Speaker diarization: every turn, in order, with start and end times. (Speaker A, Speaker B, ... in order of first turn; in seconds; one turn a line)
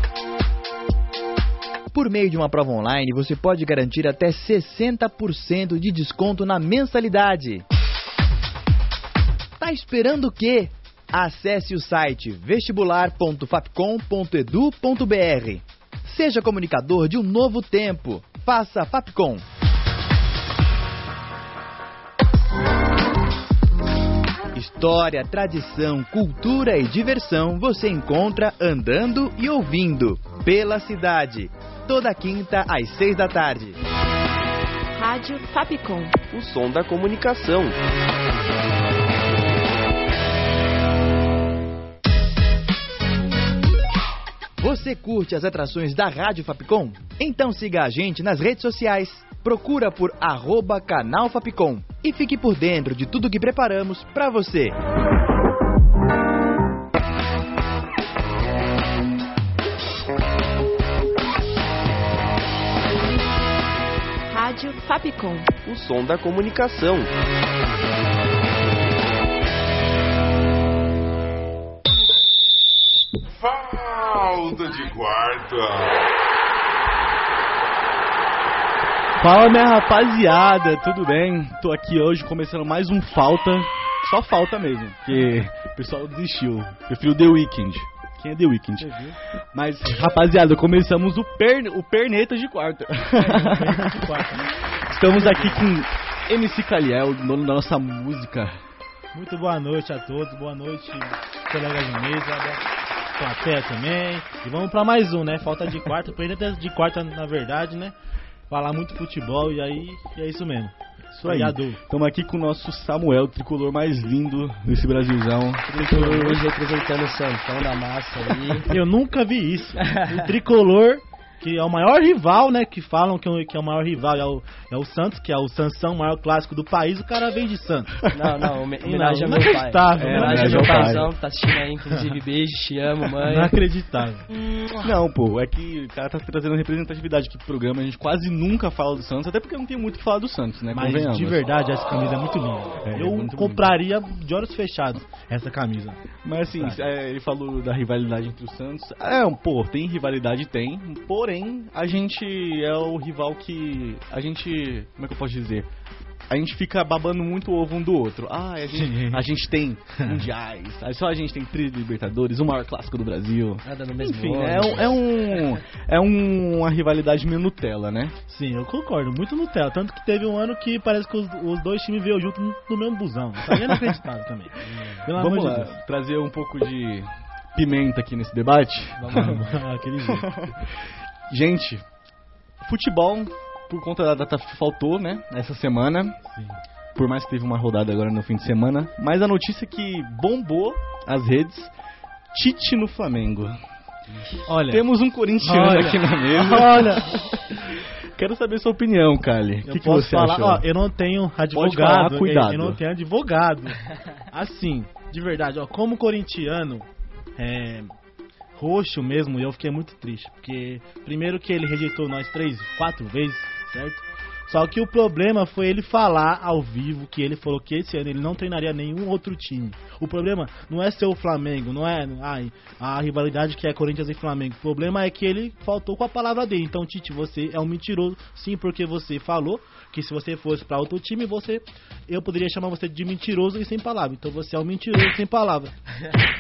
Speaker A: 1.9-7.7
Speaker A: 9.6-19.4
Speaker A: 24.5-33.8
Speaker B: 35.0-36.2
Speaker C: 36.3-37.8
Speaker A: 44.6-54.8
Speaker B: 64.3-65.5
Speaker C: 65.7-67.1
Speaker D: 73.3-76.0
Speaker E: 79.2-88.9
Speaker F: 88.8-89.2
Speaker E: 89.5-98.6
Speaker F: 93.2-94.5
Speaker F: 95.0-95.7
Speaker F: 99.1-102.6
Speaker F: 103.2-107.9
Speaker F: 108.5-111.8
Speaker E: 111.2-116.4
Speaker G: 115.7-118.7
Speaker F: 118.7-128.0
Speaker G: 119.8-120.1
Speaker G: 128.1-133.5
Speaker F: 128.8-131.1
Speaker E: 129.9-131.1
Speaker F: 133.2-134.3
Speaker E: 134.8-141.4
Speaker F: 140.7-146.9
Speaker E: 142.8-143.8
Speaker E: 146.2-155.7
Speaker E: 156.3-168.2
Speaker F: 158.7-159.2
Speaker F: 160.0-160.3
Speaker G: 163.7-165.0
Speaker F: 168.3-175.8
Speaker G: 174.6-175.1
Speaker E: 175.2-179.3
Speaker G: 179.0-179.6
Speaker F: 179.1-180.4
Speaker E: 180.0-180.7
Speaker E: 181.3-181.8
Speaker E: 182.6-186.2
Speaker F: 186.3-186.6
Speaker E: 186.9-191.7
Speaker E: 192.3-193.6
Speaker G: 194.1-194.5
Speaker F: 194.5-194.9
Speaker E: 194.7-200.7
Speaker F: 195.4-197.3
Speaker F: 199.7-207.9
Speaker E: 201.5-202.8
Speaker F: 208.6-235.7